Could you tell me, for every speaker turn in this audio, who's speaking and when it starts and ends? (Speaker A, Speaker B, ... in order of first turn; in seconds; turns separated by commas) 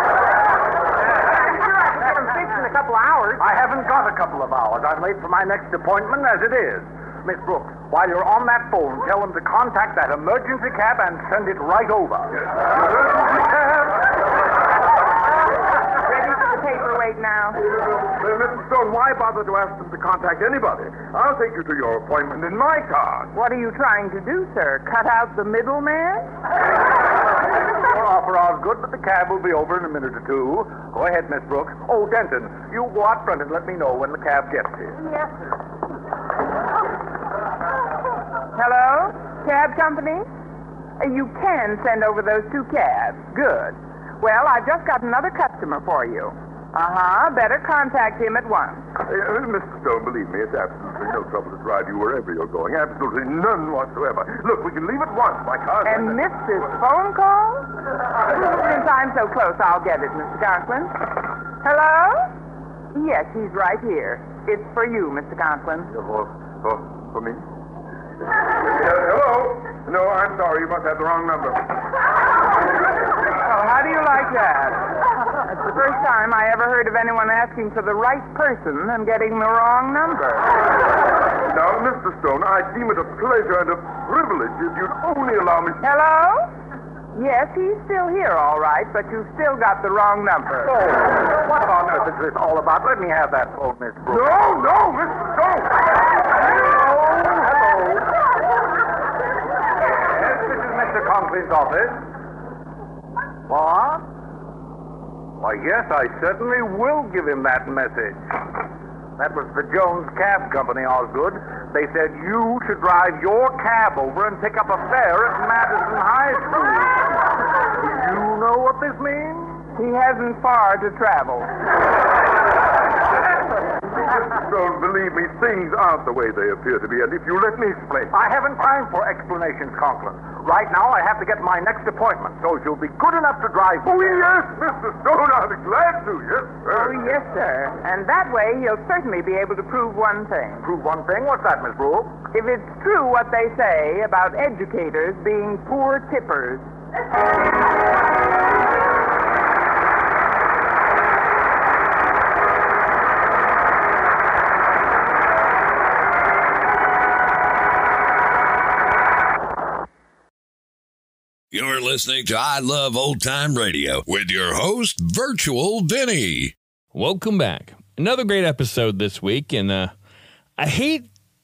Speaker A: 1.4-3.5, Speaker B: 3.4-12.5, Speaker B: 13.3-13.6, Speaker C: 16.0-17.6, Speaker D: 17.9-23.3, Speaker C: 23.3-26.3, Speaker B: 27.7-35.0, Speaker C: 38.5-40.2, Speaker C: 41.0-48.9, Speaker D: 49.0-56.2, Speaker C: 55.8-57.7, Speaker C: 58.4-61.0, Speaker C: 61.6-62.3, Speaker C: 62.9-65.9, Speaker D: 65.9-67.4, Speaker D: 68.6-71.7, Speaker C: 73.4-74.8, Speaker C: 75.5-80.5, Speaker D: 81.5-85.8, Speaker C: 85.8-86.5, Speaker C: 87.1-90.8, Speaker B: 91.1-94.5, Speaker D: 94.1-95.7, Speaker B: 96.5-98.1, Speaker B: 99.8-102.0, Speaker B: 103.5-104.0, Speaker B: 105.4-108.3, Speaker B: 109.2-117.1, Speaker B: 117.8-119.6, Speaker C: 119.8-121.5, Speaker D: 124.0-128.1, Speaker B: 128.1-134.3, Speaker D: 133.8-137.1, Speaker C: 136.7-140.7, Speaker B: 140.6-142.2, Speaker C: 142.3-146.7, Speaker E: 161.5-166.5, Speaker F: 166.9-169.9, Speaker F: 170.6-171.1